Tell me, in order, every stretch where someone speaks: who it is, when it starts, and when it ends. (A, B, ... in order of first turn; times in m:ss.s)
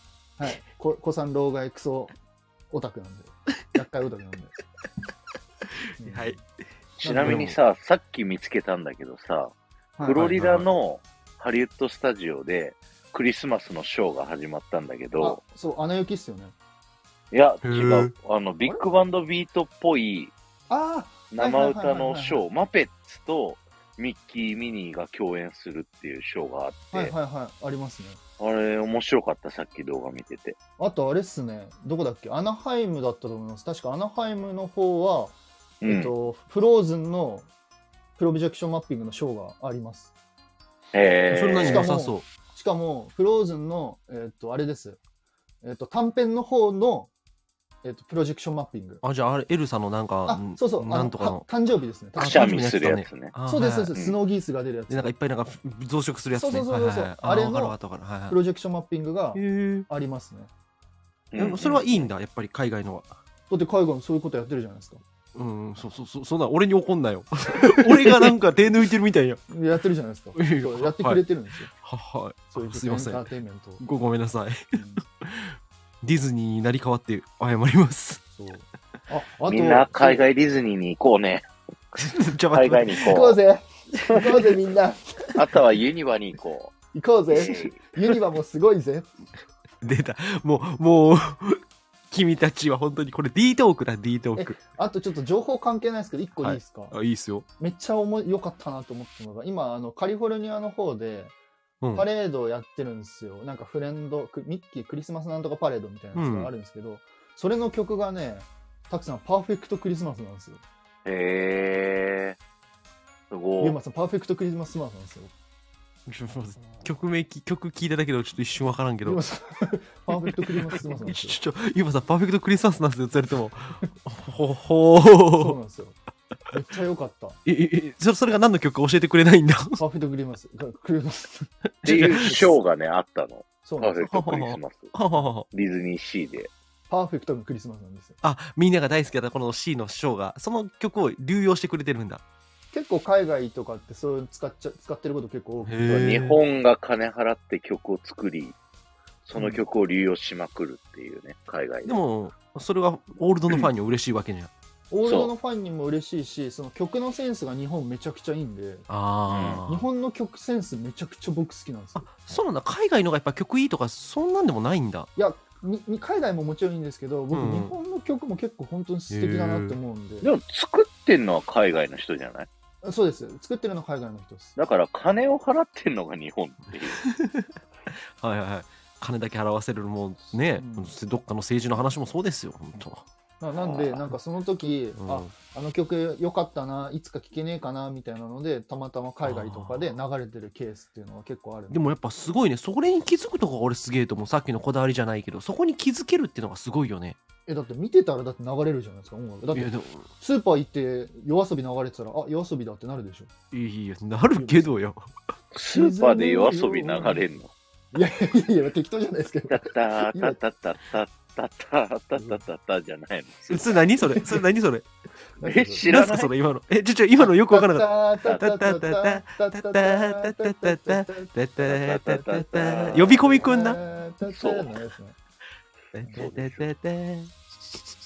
0:00.4-0:02.1 A
0:02.7-0:04.5 A
0:06.0-0:06.4 A
0:06.0-0:06.4 B
0:07.0-0:07.6 B
0:07.0-0:15.4 C
0:10.0-0:10.3 A
0:10.2-0:10.7 B
0:15.2-0:16.5 A
0:17.3-0:20.3 C
0:17.6-0:18.1 B
0:20.7-0:22.4 A
0:21.3-0:27.1 C
0:26.9-0:28.2 A
0:28.4-0:30.6 C
0:30.8-0:37.5 A
0:35.8-0:36.1 C
0:38.2-0:40.1 A
0:40.9-0:41.9 C
0:41.3-0:42.2 B
0:41.6-0:45.0 A
0:45.6-0:47.1 A
0:47.8-0:49.0 A
0:49.0-0:51.4 B
0:50.2-0:52.6 A
0:52.2-0:53.9 B
0:52.2-0:53.3 C
0:53.5-0:55.1 A
0:54.9-0:58.4 B
0:56.3-0:57.8 A
0:58.3-1:00.5 A
0:59.3-0:59.9 B
1:01.3-1:02.1 C
1:01.4-1:03.1 B
1:03.5-1:05.0 A
1:05.3-1:09.4 B
1:07.6-1:08.3 A
1:09.5-1:11.7 A
1:10.4-1:11.2 B
1:11.7-1:13.2 B
1:12.5-1:13.8 A
1:13.8-1:18.2 B
1:14.7-1:15.0 A
1:18.3-1:20.2 A
1:19.5-1:21.5 C
1:22.0-1:23.2 B
1:22.5-1:23.4 C
1:23.0-1:25.4 A
1:25.3-1:26.7 C
1:26.9-1:29.1 A
1:27.3-1:27.8 C
1:29.8-1:34.6 B
1:34.4-1:36.9 A
1:36.4-1:37.4 B
1:37.6-1:41.3 A
1:41.8-1:42.1 B
1:41.9-1:50.6 A
1:46.1-1:46.5 B
1:51.0-1:52.4 C
1:53.3-1:53.8 C
1:53.6-1:55.3 A
1:56.1-1:59.2 B
1:59.0-2:01.4 A
2:00.1-2:05.6 B
2:05.4-2:06.0 A
2:06.5-2:07.4 A
2:07.4-2:09.8 B
2:09.8-2:12.5 A
2:11.8-2:12.5 B
2:11.8-2:14.9 C
2:13.6-2:14.0 A
2:14.0-2:15.5 B
2:15.5-2:16.5 C
2:16.9-2:18.2 A
2:18.2-2:22.2 B
2:22.7-2:26.1 A
2:25.6-2:26.4 B
2:25.9-2:28.6 C
2:29.2-2:32.0 C
2:31.8-2:34.5 B
2:34.9-2:38.9 A
2:35.0-2:35.3 C
2:38.9-2:39.8 B
2:39.3-2:39.6 C
2:39.7-2:42.1 A
2:42.0-2:45.1 B
2:45.2-2:50.3 A
2:47.3-2:47.7 B
2:49.1-2:49.8 B
2:50.2-2:52.5 C
2:52.8-2:54.6 A
2:54.6-2:57.0 C
2:57.0-3:03.0 B
3:00.3-3:00.9 A
3:03.4-3:11.8 A
3:03.6-3:04.0 C
3:05.0-3:05.3 B
3:09.2-3:09.9 B
3:11.7-3:17.2 B
3:17.5-3:23.3 A
3:19.5-3:20.1 B
3:23.5-3:25.1 B
3:24.3-3:24.7 A
3:25.5-3:27.5 C
3:25.7-3:27.2 A
3:27.9-3:30.4 A
3:29.5-3:33.8 C
3:32.2-3:32.4 A
3:33.5-3:34.8 B
3:34.0-3:34.4 A
3:35.4-3:35.9 A
3:35.4-3:36.3 C
3:35.9-3:43.8 B
3:37.2-3:41.3 A
3:41.6-3:43.3 C
3:42.9-3:45.2 A
3:44.3-3:44.7 C
3:45.9-3:47.8 B
3:46.0-3:46.3 A
3:46.1-3:46.7 C